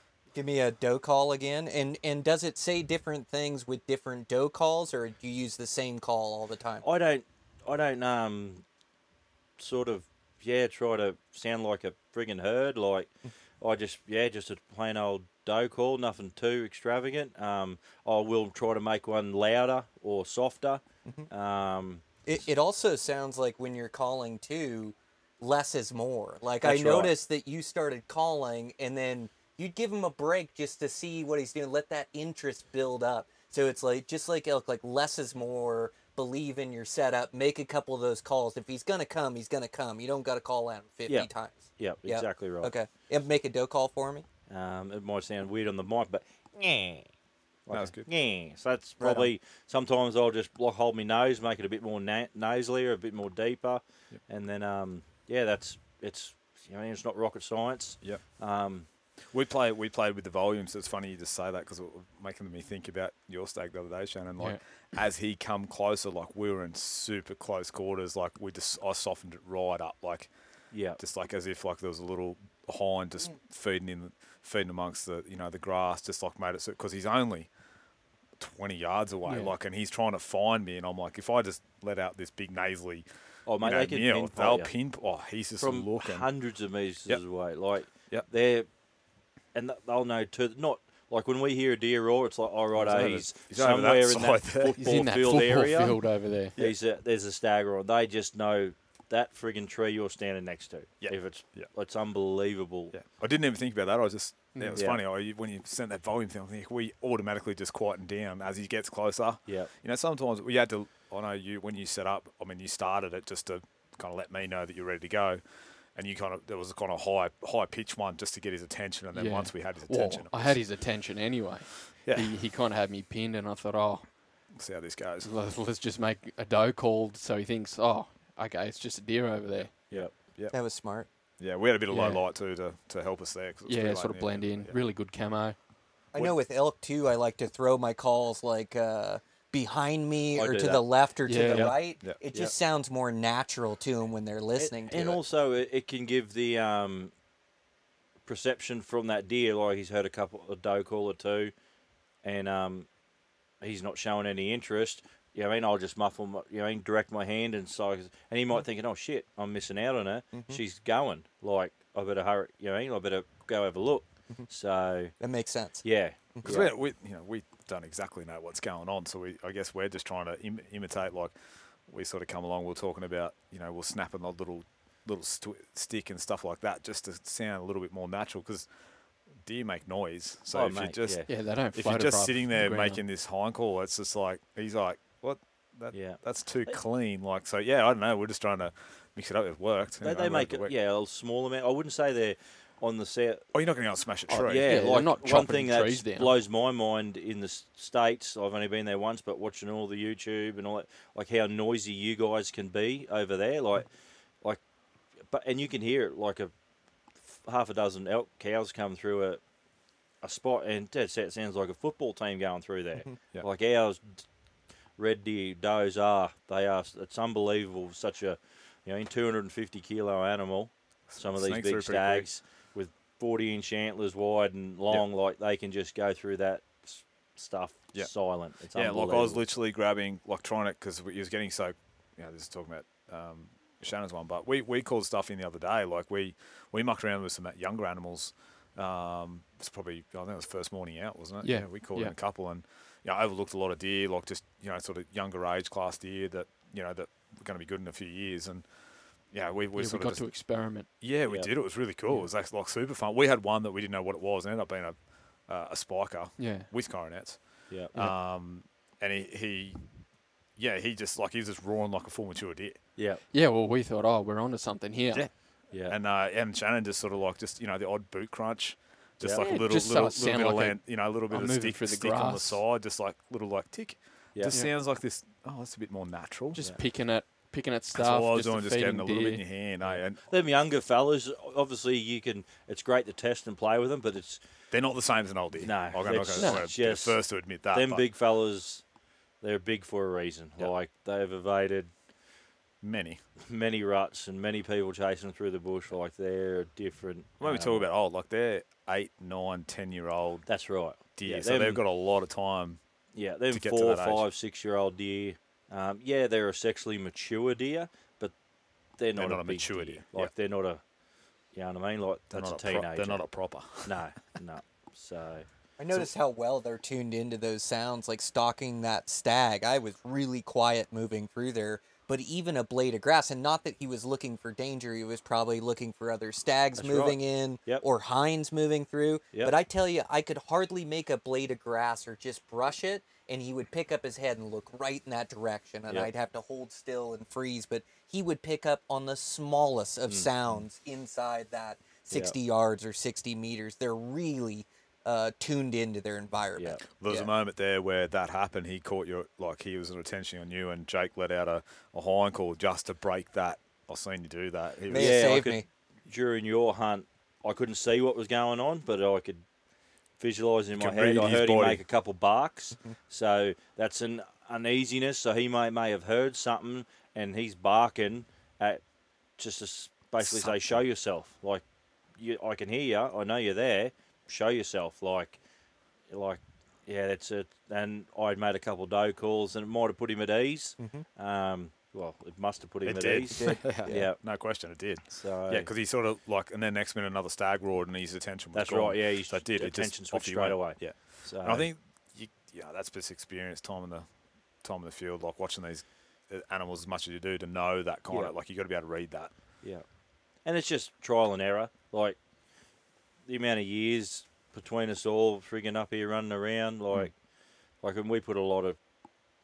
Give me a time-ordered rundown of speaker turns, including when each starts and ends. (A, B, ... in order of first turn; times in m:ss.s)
0:00.3-0:06.8 A
0:06.8-0:08.6 B
0:09.6-0:22.4 B
0:22.2-0:44.2 A
0:26.6-0:27.1 B
0:41.1-0:42.7 B
0:44.5-0:47.1 B
0:47.6-0:58.9 B
0:47.7-0:48.1 C
0:49.0-0:49.3 A
0:59.0-1:17.6 C
1:04.4-1:04.8 D
1:10.7-1:11.0 B
1:18.4-1:28.3 C
1:19.2-1:19.5 D
1:23.4-1:24.8 B
1:25.6-1:28.9 B
1:29.4-1:43.0 B
1:32.7-1:34.8 C
1:34.8-1:36.5 D
1:41.0-1:41.7 C
1:42.9-2:01.1 C
1:44.5-1:44.8 D
1:44.7-1:45.0 B
1:49.4-1:49.7 B
1:59.1-2:04.2 D
2:02.0-2:02.4 C
2:04.5-2:05.3 C
2:05.2-2:09.8 D
2:09.5-2:10.7 C
2:10.5-2:11.1 A
2:11.4-2:14.8 C
2:11.9-2:12.2 D
2:13.6-2:15.6 D
2:16.1-2:25.2 A
2:20.3-2:20.8 B
2:21.2-2:21.9 D
2:21.5-2:21.8 B
2:24.6-2:27.1 B
2:28.2-2:31.5 B
2:32.2-2:33.0 B
2:33.6-2:46.8 B
2:40.3-2:40.6 A
2:45.2-2:46.5 A
2:46.4-3:10.7 C
3:00.5-3:01.3 B
3:01.3-3:03.0 D
3:05.9-3:06.8 B
3:10.0-3:29.5 B
3:13.5-3:15.1 C
3:14.3-3:16.3 D
3:30.1-3:49.4 B
3:41.1-3:42.3 C
3:47.9-4:22.9 C
4:01.4-4:02.1 D
4:09.7-4:10.9 D
4:11.3-4:11.5 B
4:12.0-4:12.3 D
4:16.4-4:16.7 D
4:23.0-4:23.2 B
4:23.3-4:25.4 D
4:25.1-4:36.6 C
4:25.7-4:26.0 B
4:29.2-4:29.5 B
4:29.4-4:32.6 D
4:36.5-4:39.5 D
4:37.9-4:40.2 C
4:39.8-4:44.4 B
4:44.7-4:48.1 C
4:45.5-4:51.9 B
4:46.3-4:46.6 D
4:52.8-4:53.2 C
4:53.4-4:57.9 B
4:57.4-5:04.3 C
5:00.4-5:01.8 B
5:03.1-5:10.9 B
5:09.2-5:10.3 C
5:11.4-5:15.5 B
5:12.3-5:14.1 C
5:15.8-5:47.3 A
5:26.8-5:27.8 B
5:42.1-5:42.4 B
5:46.5-5:46.8 B
5:47.0-5:55.4 C
5:54.9-5:55.6 A
5:54.9-5:59.5 B
6:00.1-6:15.4 B
6:00.8-6:01.8 C
6:10.2-6:10.8 C
6:16.0-6:25.7 B
6:20.8-6:21.0 A
6:22.8-6:39.4 C
6:23.4-6:24.1 A
6:28.5-6:31.7 B
6:38.1-6:38.4 B
6:39.6-6:48.9 B